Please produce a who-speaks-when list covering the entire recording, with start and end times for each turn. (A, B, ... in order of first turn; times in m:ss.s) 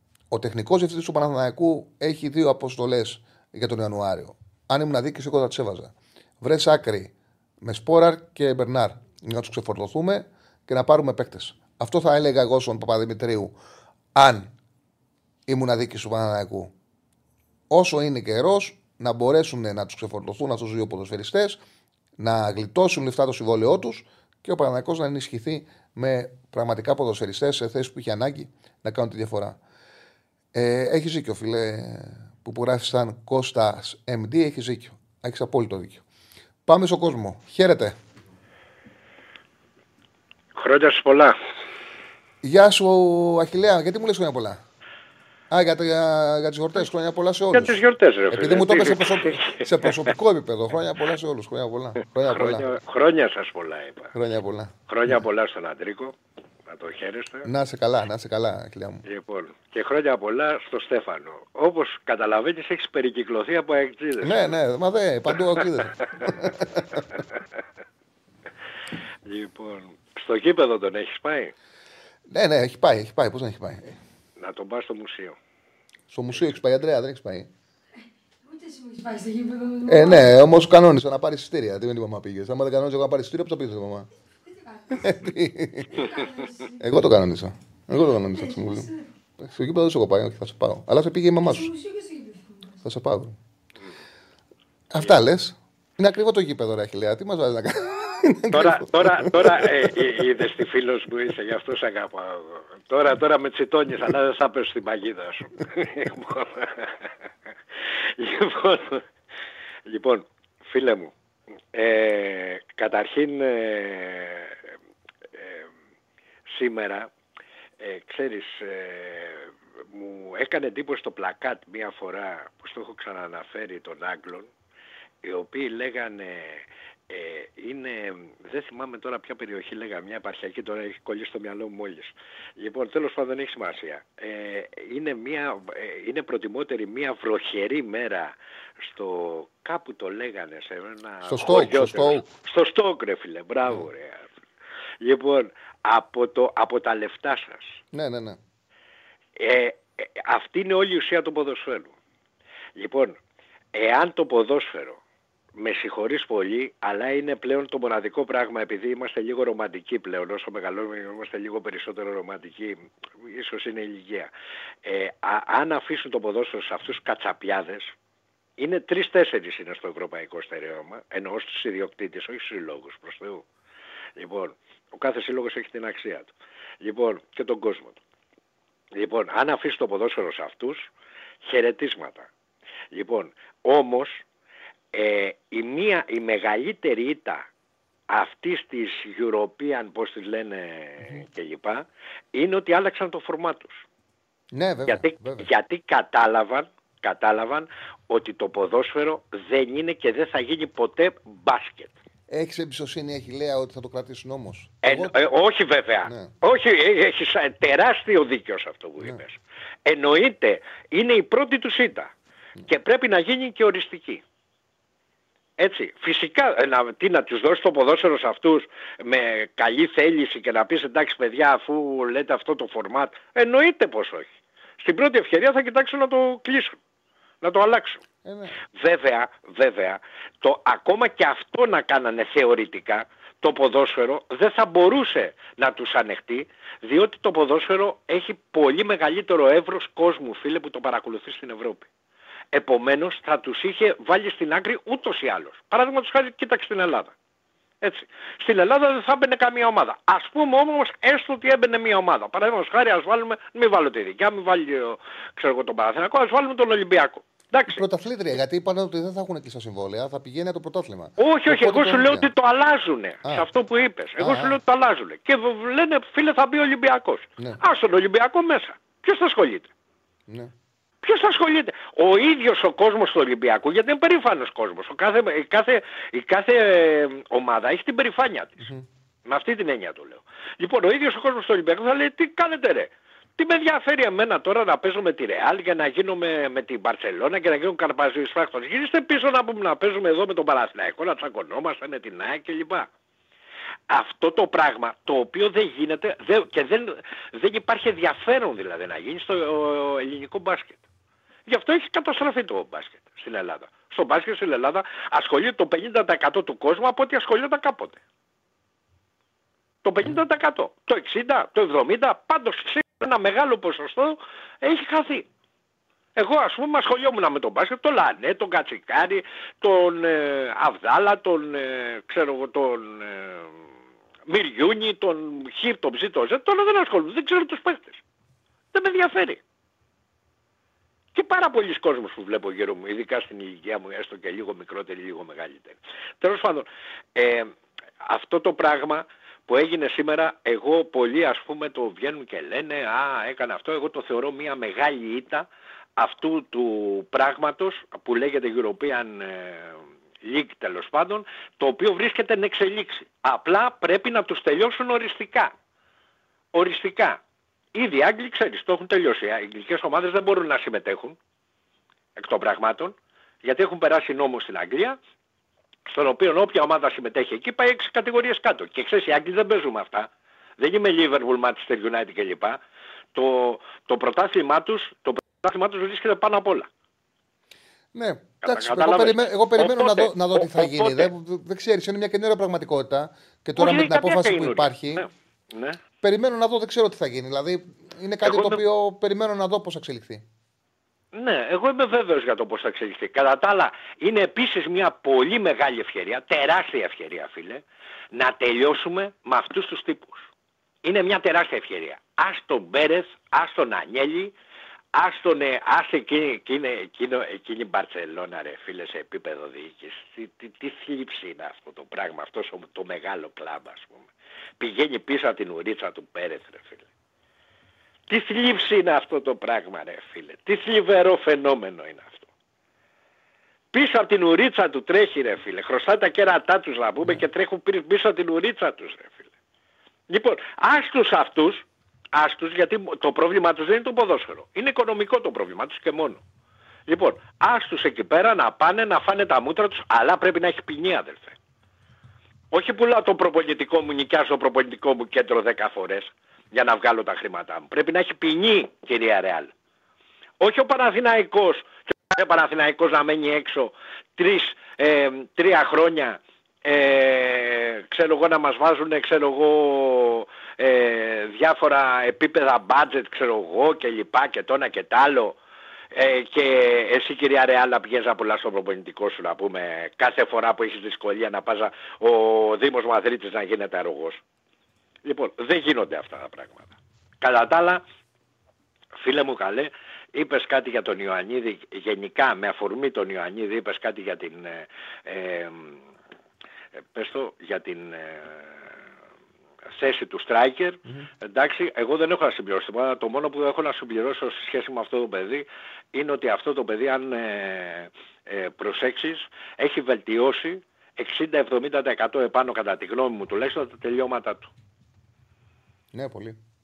0:00.3-0:13.5 A
0:14.2-0:14.5 A
0:15.5-0:16.7 A
0:17.7-0:21.6 A
0:22.2-0:29.6 A
0:30.5-0:36.0 A
0:36.6-0:38.0 A
0:40.5-0:41.4 B
0:42.4-0:44.6 A
0:45.5-0:52.7 A
0:47.5-0:50.0 B
0:52.2-0:54.1 B
0:54.1-0:54.7 A
0:54.9-0:57.5 B
0:57.4-0:59.0 A
0:59.0-1:04.5 B
1:04.2-1:07.0 A
1:09.2-1:11.5 B
1:12.3-1:14.0 A
1:14.4-1:15.4 B
1:16.1-1:17.5 A
1:18.4-1:20.3 C
1:19.9-1:24.1 A
1:24.4-1:25.2 C
1:24.9-1:26.1 A
1:25.9-1:27.0 C
1:26.8-1:28.9 A
1:28.3-1:29.1 C
1:29.4-1:31.7 A
1:31.4-1:32.8 C
1:32.8-1:33.4 A
1:34.9-1:40.0 A
1:38.5-1:47.1 B
1:48.2-1:49.0 B
1:49.8-1:51.1 B
1:51.7-1:54.6 B
1:55.3-1:55.7 B
1:56.5-1:57.1 B
1:57.8-2:04.5 B
2:05.2-2:24.3 B
2:21.2-2:22.2 A
2:25.0-2:27.8 B
2:27.9-2:28.4 A
2:29.4-2:31.9 B
2:32.7-2:33.2 B
2:33.7-2:35.0 B
2:35.6-2:44.3 B
2:44.8-2:47.9 B
2:48.6-2:53.4 B
2:54.2-2:58.0 B
2:58.9-3:00.9 B
3:01.4-3:02.3 B
3:02.9-3:04.2 B
3:04.9-3:07.4 B
3:08.1-3:13.8 B
3:14.5-3:15.5 A
3:14.9-3:21.9 B
3:22.3-3:25.2 A
3:24.8-3:32.1 B
3:26.0-3:26.3 A
3:32.6-3:34.2 B
3:35.6-3:44.3 B
3:44.8-3:46.8 B
3:47.4-3:48.0 B
3:48.2-3:48.6 A
3:48.8-4:01.9 B
4:02.5-4:07.1 B
4:07.8-4:17.8 B
4:17.7-4:22.3 A
4:21.2-4:29.7 B
4:24.2-4:24.6 A
4:31.0-4:38.7 B
4:38.6-4:38.8 A
4:39.2-4:52.9 B
4:53.9-5:00.8 B
5:01.5-5:08.0 B
5:09.8-5:15.2 B
5:16.2-5:23.5 B
5:24.3-5:28.0 B
5:28.7-5:29.4 B
5:31.1-5:37.5 B
5:38.0-5:55.5 B
5:56.5-5:57.2 B
5:57.7-6:01.2 B
6:02.2-6:05.0 B
6:05.9-6:12.6 B
6:13.1-6:16.7 B
6:17.9-6:25.0 A
6:18.4-6:21.1 B
6:23.6-6:25.8 B
6:26.0-6:30.2 A
6:28.2-6:28.6 B
6:31.1-6:40.3 B
6:40.8-6:44.3 B
6:44.9-6:54.1 B
6:54.6-6:56.8 B
6:58.1-7:02.3 B
7:03.7-7:09.3 B
7:10.1-7:16.2 B
7:16.9-7:21.4 B
7:22.5-7:29.5 B
7:30.4-7:45.4 B
7:45.9-7:54.2 B
7:55.0-7:56.7 B
7:57.2-7:57.8 B
7:59.0-8:05.8 B
8:06.9-8:08.7 B
8:09.7-8:24.5 B
8:25.9-8:26.4 A